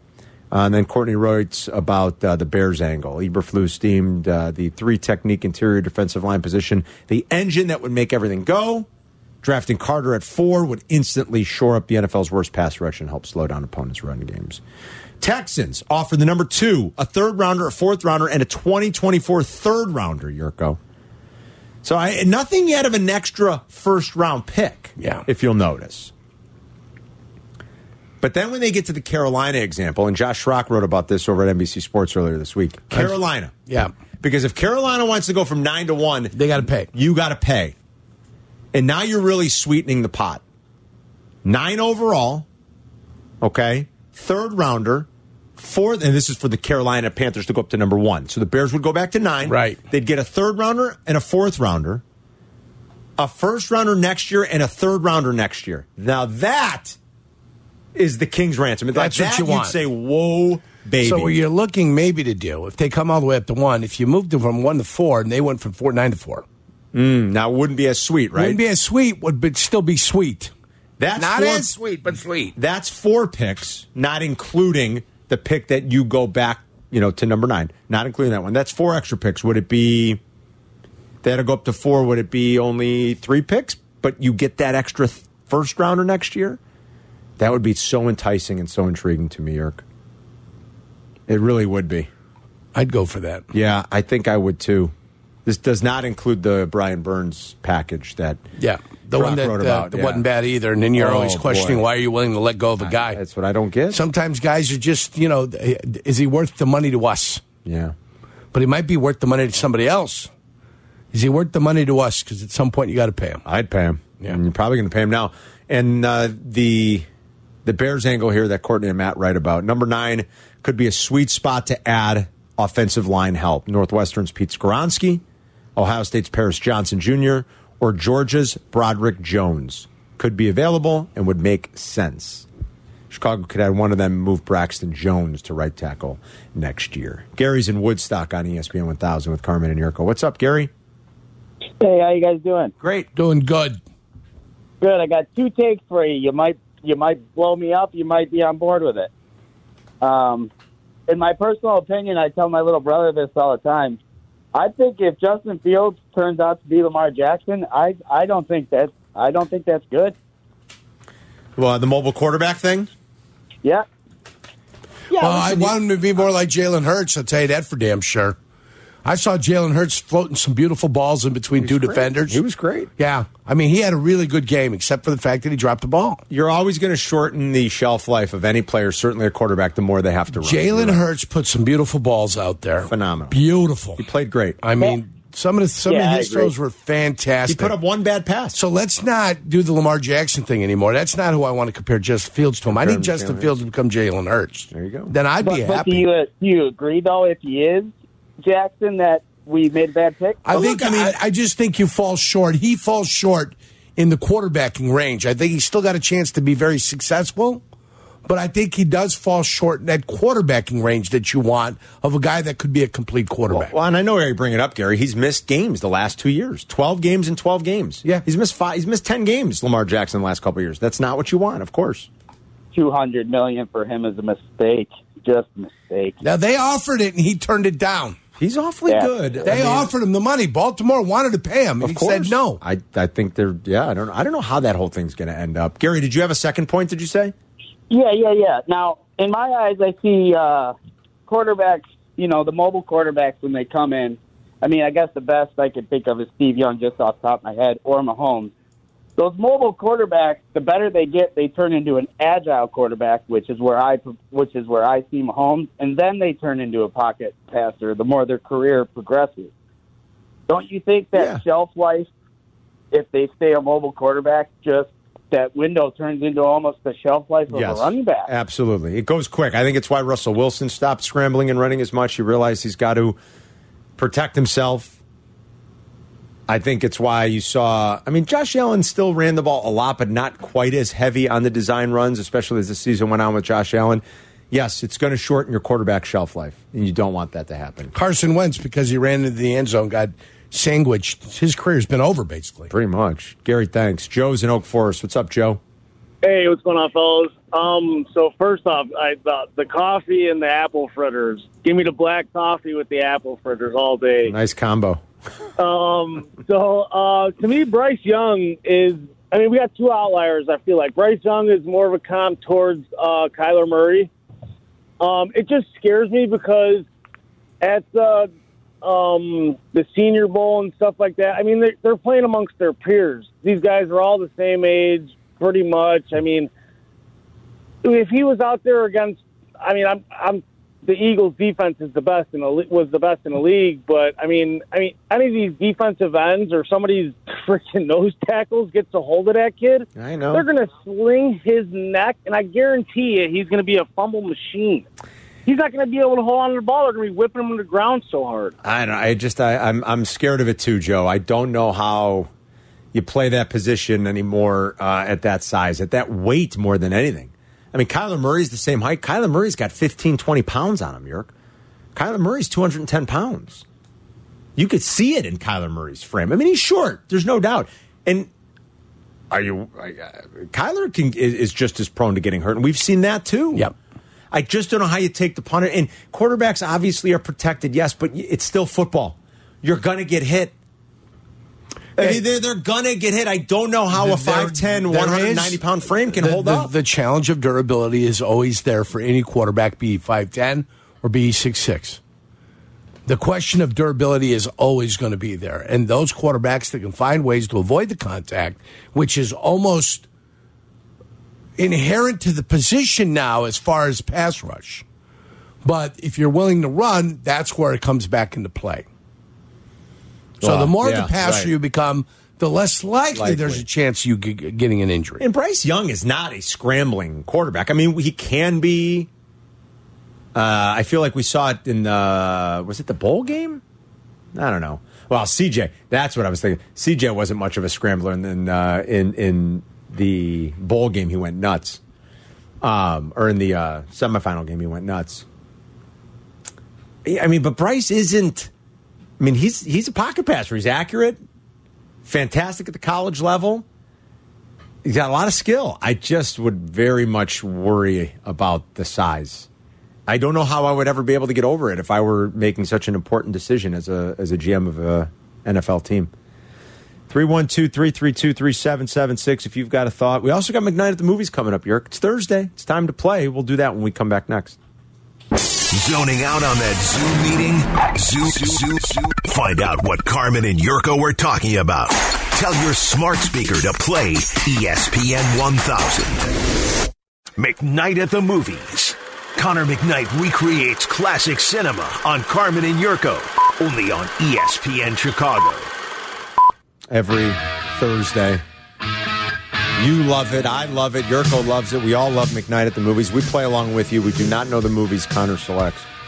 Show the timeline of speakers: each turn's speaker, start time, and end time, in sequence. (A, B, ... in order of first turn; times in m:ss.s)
0:00.5-0:08.9 A
0:09.4-0:14.6 A
0:15.2-0:20.8 A
0:21.8-0:26.1 A
0:25.0-0:25.2 B
0:28.2-0:33.7 A
0:34.2-0:37.8 A
0:36.3-0:36.9 B
0:38.7-0:40.4 A
0:41.4-0:42.5 A
0:43.4-0:52.0 A
0:49.4-0:49.8 B
0:53.2-0:57.0 A
0:58.0-1:01.3 A
0:58.9-0:59.7 B
1:01.0-1:06.4 B
1:06.9-1:08.6 A
1:08.4-1:10.5 B
1:11.0-1:11.8 A
1:11.2-1:12.5 B
1:12.6-1:20.2 A
1:21.2-1:26.6 A
1:27.4-1:29.8 A
1:31.3-1:32.1 A
1:32.8-1:33.5 B
1:33.5-1:34.9 A
1:35.4-1:38.4 A
1:38.6-1:43.2 B
1:39.1-1:40.2 A
1:41.0-1:41.8 A
1:42.8-1:44.0 A
1:43.9-1:47.4 B
1:47.6-1:48.0 A
1:48.5-1:50.3 B
1:51.1-1:53.4 B
1:53.5-1:57.1 A
1:57.6-2:05.2 A
2:05.8-2:12.5 A
2:13.1-2:20.7 A
2:21.8-2:22.7 C
2:22.8-2:23.1 A
2:23.2-2:23.8 B
2:24.8-2:29.1 C
2:30.0-2:30.5 C
2:31.1-2:34.0 C
2:34.5-2:40.2 C
2:41.6-2:42.9 A
2:45.1-2:45.8 A
2:45.2-2:48.4 B
2:49.0-2:52.4 B
2:51.6-2:52.9 A
2:53.0-2:56.2 B
2:56.3-3:01.0 A
3:00.3-3:04.0 B
3:02.8-3:03.4 A
3:04.0-3:04.6 A
3:04.6-3:07.7 B
3:05.8-3:06.5 C
3:07.5-3:08.6 A
3:08.5-3:16.0 B
3:12.7-3:13.5 A
3:14.7-3:15.2 A
3:15.4-3:20.4 C
3:20.4-3:27.6 B
3:20.5-3:21.2 A
3:28.3-3:33.7 B
3:33.5-3:42.1 A
3:42.7-3:46.2 C
3:46.2-3:48.2 B
3:48.4-3:49.9 A
3:48.9-3:49.6 C
3:49.4-3:52.6 B
3:51.8-3:57.3 A
3:57.9-4:00.8 C
4:01.3-4:08.5 C
4:09.2-4:19.5 C
4:20.5-4:22.1 C
4:21.2-4:21.4 A
4:22.9-4:28.3 C
4:27.5-4:33.2 A
4:34.0-4:35.0 A
4:36.5-4:47.9 A
4:47.9-4:52.7 B
4:52.7-4:55.6 A
4:56.2-5:04.4 D
5:04.3-5:05.0 A
5:05.6-5:14.1 D
5:15.0-5:16.9 D
5:17.6-5:18.3 D
5:18.8-5:26.5 D
5:27.8-5:44.9 D
5:40.0-5:40.4 A
5:45.5-5:48.5 D
5:48.6-5:52.3 A
5:52.9-6:01.3 A
6:02.0-6:03.6 A
6:04.6-6:08.3 A
6:09.3-6:13.7 A
6:14.3-6:20.5 A
6:22.0-6:26.7 A
6:23.9-6:25.6 B
6:26.1-6:32.0 B
6:33.1-6:40.1 B
6:41.6-6:44.8 B
6:45.6-6:48.9 B
6:50.4-6:51.5 A
6:50.4-6:55.2 B
6:53.1-6:53.6 A
6:55.2-6:59.1 A
7:00.4-7:03.6 A
7:04.3-7:11.8 A
7:12.6-7:15.3 A
7:17.0-7:18.5 A
7:19.2-7:21.2 A
7:22.0-7:23.7 A
7:24.8-7:29.5 A
7:30.1-7:36.1 A
7:37.1-7:44.6 A
7:45.7-7:56.4 E
7:57.4-8:05.7 E
8:06.9-8:08.4 A
8:09.8-8:15.9 A